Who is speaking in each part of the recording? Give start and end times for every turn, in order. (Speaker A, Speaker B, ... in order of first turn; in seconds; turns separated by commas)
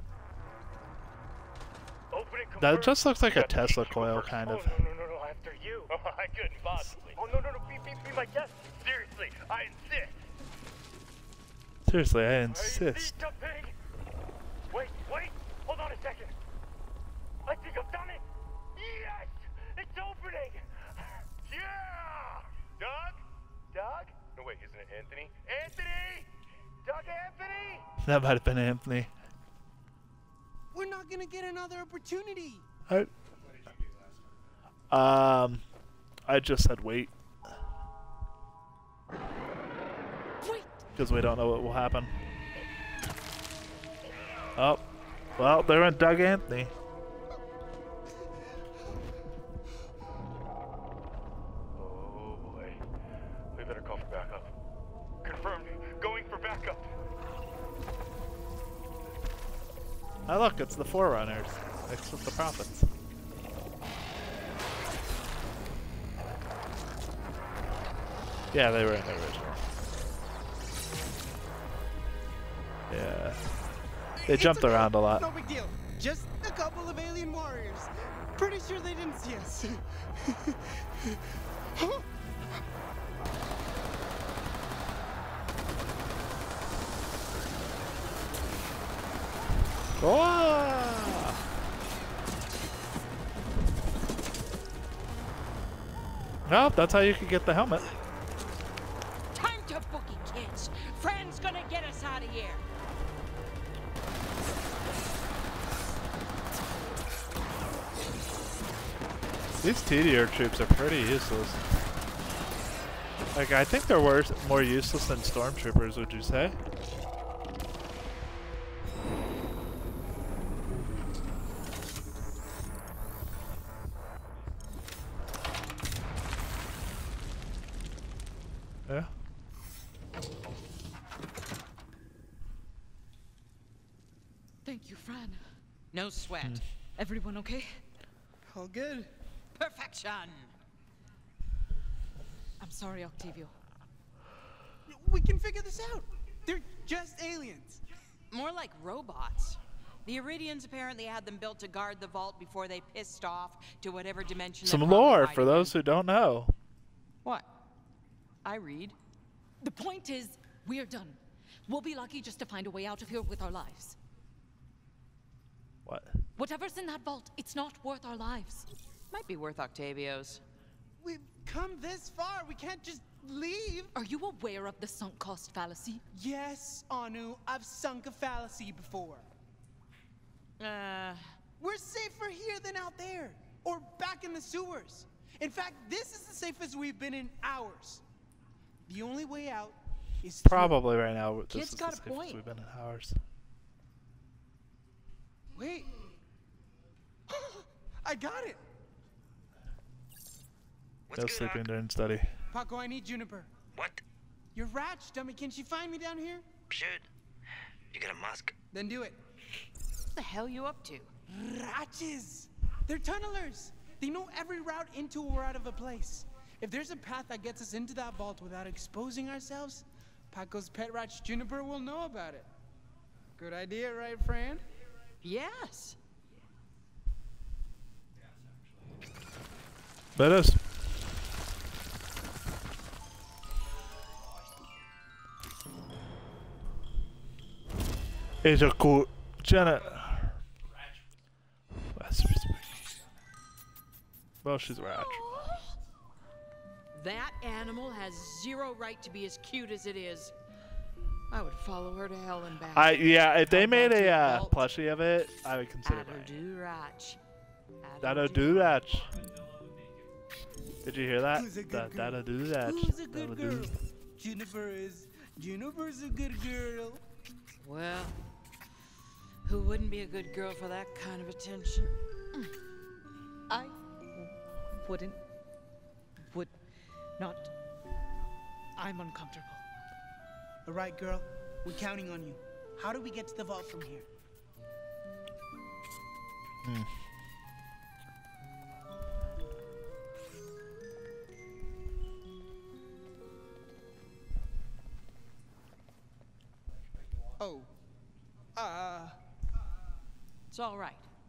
Speaker A: 2.1-10.2, Speaker B: 2.6-4.8, Speaker B: 11.8-13.2, Speaker A: 12.5-13.7, Speaker A: 14.7-16.3, Speaker A: 17.4-18.2, Speaker A: 18.8-23.2, Speaker A: 23.7-26.3, Speaker A: 26.8-27.9, Speaker B: 28.0-29.1, Speaker C: 30.7-32.6, Speaker B: 34.9-35.6, Speaker B: 36.3-37.1, Speaker D: 40.4-40.9, Speaker B: 40.9-42.1, Speaker B: 44.5-44.8, Speaker B: 45.4-46.7, Speaker A: 51.8-52.8, Speaker A: 53.5-54.5, Speaker A: 55.2-56.9, Speaker B: 60.3-62.9, Speaker B: 68.5-69.6, Speaker B: 72.9-73.4, Speaker C: 74.2-81.2, Speaker B: 74.2-75.3, Speaker C: 81.7-82.1, Speaker B: 90.0-91.4, Speaker B: 96.5-97.8, Speaker E: 99.3-102.6, Speaker B: 109.6-111.6, Speaker B: 113.3-116.6, Speaker B: 128.8-129.1, Speaker D: 134.6-135.4, Speaker E: 135.9-136.6, Speaker D: 136.9-137.8, Speaker C: 138.5-139.1, Speaker E: 139.6-140.5, Speaker D: 142.6-143.5, Speaker C: 144.9-147.8, Speaker E: 148.3-155.7, Speaker B: 154.6-156.5, Speaker E: 158.4-159.0, Speaker D: 159.6-164.0, Speaker B: 165.8-166.2, Speaker D: 166.3-168.7, Speaker E: 169.1-170.4, Speaker C: 171.0-173.9, Speaker D: 173.9-176.0, Speaker C: 176.1-179.3, Speaker E: 180.6-181.3, Speaker C: 181.6-188.0, Speaker C: 188.8-190.8, Speaker B: 190.4-193.2, Speaker E: 191.5-192.4, Speaker C: 195.5-195.9, Speaker C: 197.3-198.6, Speaker F: 201.1-201.6, Speaker B: 201.1-202.4, Speaker C: 202.5-203.5, Speaker F: 203.7-204.0, Speaker C: 204.5-206.4, Speaker F: 206.7-207.1, Speaker F: 207.9-208.5, Speaker C: 208.7-209.2, Speaker E: 210.1-211.1, Speaker C: 211.3-222.5, Speaker C: 223.4-224.6, Speaker E: 225.2-226.0, Speaker B: 230.2-230.6, Speaker B: 238.4-240.3, Speaker B: 241.9-242.8, Speaker B: 244.4-245.2, Speaker E: 244.9-245.7, Speaker E: 246.9-250.3, Speaker E: 251.3-254.6, Speaker B: 252.7-256.3, Speaker E: 255.8-257.2, Speaker E: 257.8-258.8, Speaker B: 258.0-259.2, Speaker B: 260.8-263.8, Speaker C: 261.3-267.0, Speaker E: 267.6-268.2, Speaker E: 269.4-271.9, Speaker D: 273.5-275.2, Speaker D: 276.3-276.6, Speaker D: 277.2-277.5, Speaker D: 278.8-279.6, Speaker C: 280.6-284.1, Speaker B: 286.6-286.9, Speaker C: 297.4-297.7, Speaker C: 298.6-299.2, Speaker E: 300.5-301.1